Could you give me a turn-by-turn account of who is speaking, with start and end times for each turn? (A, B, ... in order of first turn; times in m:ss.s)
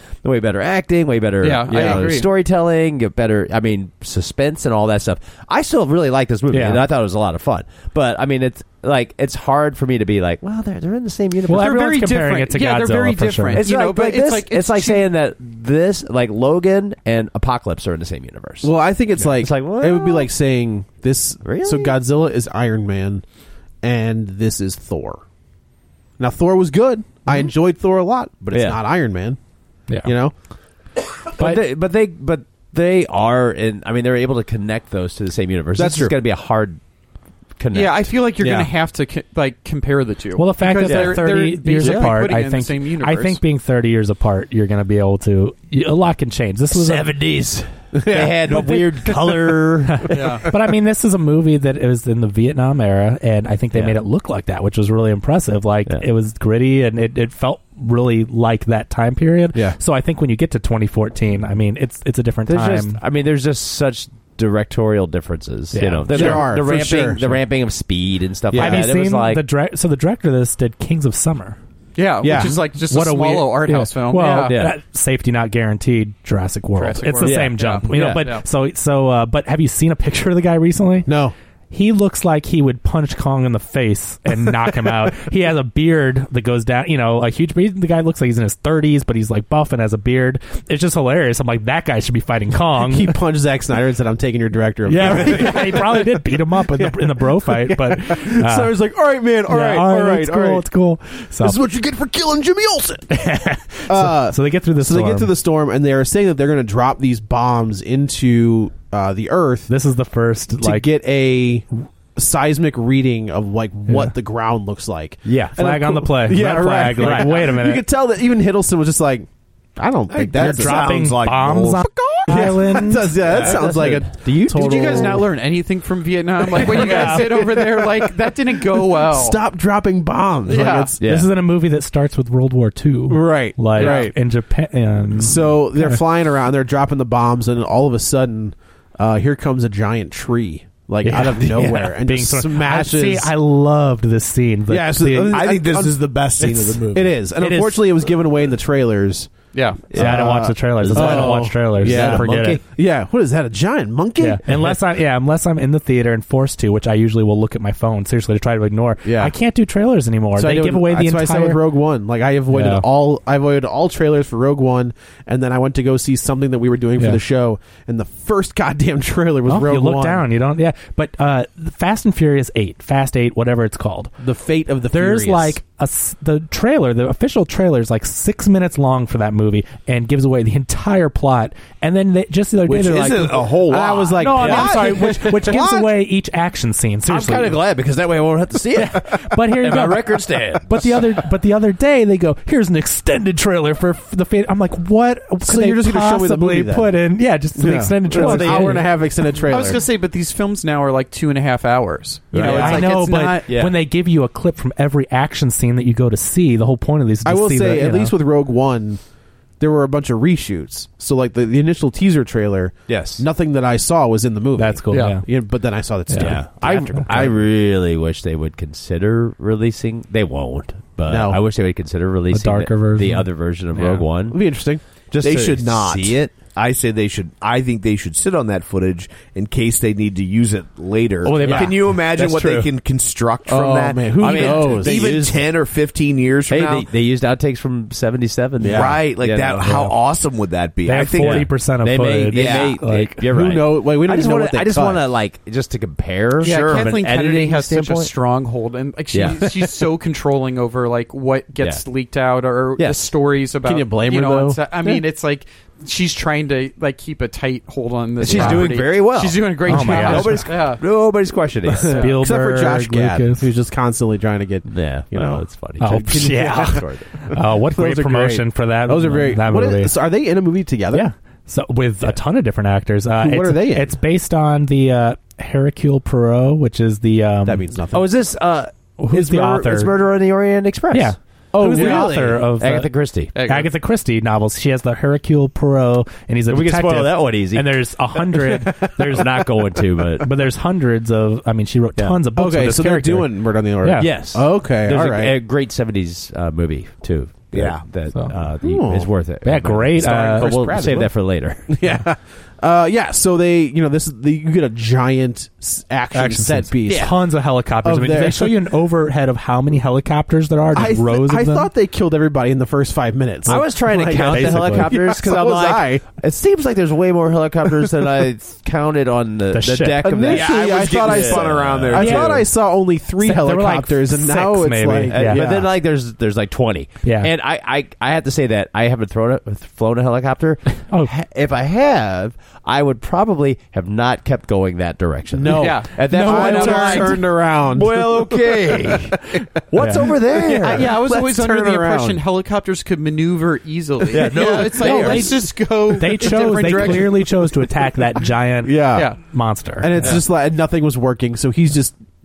0:00.2-0:11.9 A
0:01.4-0:02.3 B
0:01.7-0:02.1 C
0:06.5-0:06.8 D
0:11.4-0:13.6 D
0:11.5-0:15.1 B
0:13.5-0:20.3 A
0:18.6-0:23.2 C
0:21.4-0:22.0 A
0:23.8-0:25.2 C
0:26.2-0:29.4 C
0:28.5-0:28.8 A
0:30.0-0:30.3 C
0:31.4-0:36.8 A
0:31.4-0:31.6 D
0:35.7-0:36.2 C
0:37.6-0:38.1 A
0:37.7-0:43.4 B
0:38.4-0:38.7 C
0:40.4-0:47.1 D
0:40.8-0:41.2 A
0:41.8-0:42.1 A
0:46.7-0:50.4 A
0:48.0-0:48.8 C
0:49.9-1:03.0 D
0:50.1-0:50.5 B
1:02.5-1:09.4 A
1:05.7-1:06.5 D
1:06.1-1:07.4 C
1:08.5-1:08.9 C
1:08.5-1:11.6 D
1:12.0-1:14.6 B
1:12.2-1:12.6 C
1:12.3-1:21.1 D
1:14.4-1:14.8 A
1:16.8-1:18.4 B
1:17.2-1:18.4 A
1:21.0-1:21.3 C
1:21.7-1:33.2 D
1:32.8-1:40.7 C
1:34.9-1:38.7 D
1:39.5-1:41.6 D
1:41.4-1:43.1 C
1:43.1-1:45.3 D
1:43.9-1:49.7 C
1:49.7-1:50.9 D
1:50.6-2:00.9 C
1:53.9-1:54.1 D
1:55.2-1:55.5 A
1:55.6-1:57.8 D
1:57.0-1:57.3 A
2:00.1-2:01.9 E
2:00.4-2:03.5 D
2:00.4-2:01.0 A
2:02.2-2:05.2 C
2:03.2-2:05.2 A
2:04.5-2:09.4 B
2:06.4-2:08.1 C
2:06.7-2:07.4 D
2:08.7-2:11.0 C
2:10.5-2:10.9 B
2:11.0-2:11.3 A
2:11.0-2:16.0 D
2:13.1-2:14.1 C
2:13.8-2:14.1 B
2:15.2-2:23.3 C
2:21.0-2:25.4 D
2:24.7-2:29.3 C
2:25.3-2:27.1 E
2:27.4-2:27.9 D
2:29.5-2:29.8 B
2:29.9-2:32.6 A
2:29.9-2:32.6 D
2:29.9-2:34.7 C
2:34.2-2:41.6 D
2:39.0-2:39.3 C
2:40.3-2:50.2 C
2:42.5-2:42.8 D
2:49.4-2:54.1 D
2:54.2-2:55.6 C
2:54.9-3:03.4 D
3:02.7-3:05.9 C
3:02.7-3:04.7 E
3:04.1-3:07.6 D
3:04.4-3:05.0 A
3:07.1-3:11.2 A
3:08.7-3:18.9 D
3:15.4-3:16.9 C
3:17.6-3:19.8 C
3:18.1-3:19.0 A
3:19.4-3:23.5 B
3:22.3-3:23.8 A
3:22.4-3:22.7 C
3:22.4-3:28.1 D
3:27.2-3:29.0 C
3:29.6-3:37.4 C
3:32.9-3:33.2 A
3:34.6-3:35.2 D
3:34.9-3:35.2 B
3:36.1-3:37.1 D
3:36.2-3:44.4 A
3:41.1-3:41.4 C
3:42.3-3:44.0 D
3:44.3-3:44.8 C
3:45.1-3:46.4 A
3:45.2-3:56.9 E
3:51.2-3:52.7 A
3:51.4-3:51.7 C
3:53.5-3:55.3 C
3:54.2-3:55.4 A
3:56.5-3:59.9 A
3:58.6-3:59.0 C
3:58.6-4:01.5 E
3:59.6-3:59.9 D
4:00.8-4:03.2 D
4:01.0-4:08.1 A
4:02.3-4:02.6 E
4:03.2-4:05.0 C
4:06.4-4:20.8 B
4:09.1-4:09.6 A
4:12.8-4:13.1 A
4:13.6-4:14.6 C
4:18.2-4:22.1 A
4:18.3-4:18.7 C
4:19.6-4:20.6 D
4:21.6-4:31.1 C
4:22.0-4:23.5 D
4:24.6-4:27.0 A
4:25.8-4:29.9 D
4:30.9-4:37.6 D
4:33.2-4:33.9 C
4:37.4-4:38.1 C
4:37.9-4:41.1 A
4:39.0-4:39.9 D
4:40.9-4:49.4 D
4:41.5-4:42.5 C
4:41.7-4:43.3 A
4:43.3-4:43.7 B
4:46.5-4:47.8 A
4:49.1-4:50.3 A
4:50.2-4:54.1 D
4:52.3-4:55.4 C
4:54.0-5:01.6 A
4:57.5-4:57.8 E
4:58.6-4:59.1 C
4:59.4-5:00.6 D
5:00.0-5:07.3 C
5:06.1-5:11.7 D
5:07.8-5:08.6 C
5:10.7-5:16.2 C
5:13.4-5:22.0 A
5:14.2-5:14.9 D
5:19.5-5:20.2 D
5:20.0-5:25.7 C
5:20.2-5:22.4 E
5:21.9-5:22.4 D
5:23.2-5:25.4 D
5:25.1-5:41.0 A
5:27.0-5:27.3 D
5:35.3-5:42.2 C
5:35.5-5:37.0 B
5:36.1-5:37.2 D
5:39.8-5:40.0 D
5:40.6-5:47.4 B
5:44.1-5:45.4 A
5:44.1-5:45.3 C
5:44.8-5:50.2 D
5:46.6-5:46.9 C
5:48.6-5:49.1 C
5:49.8-5:52.0 C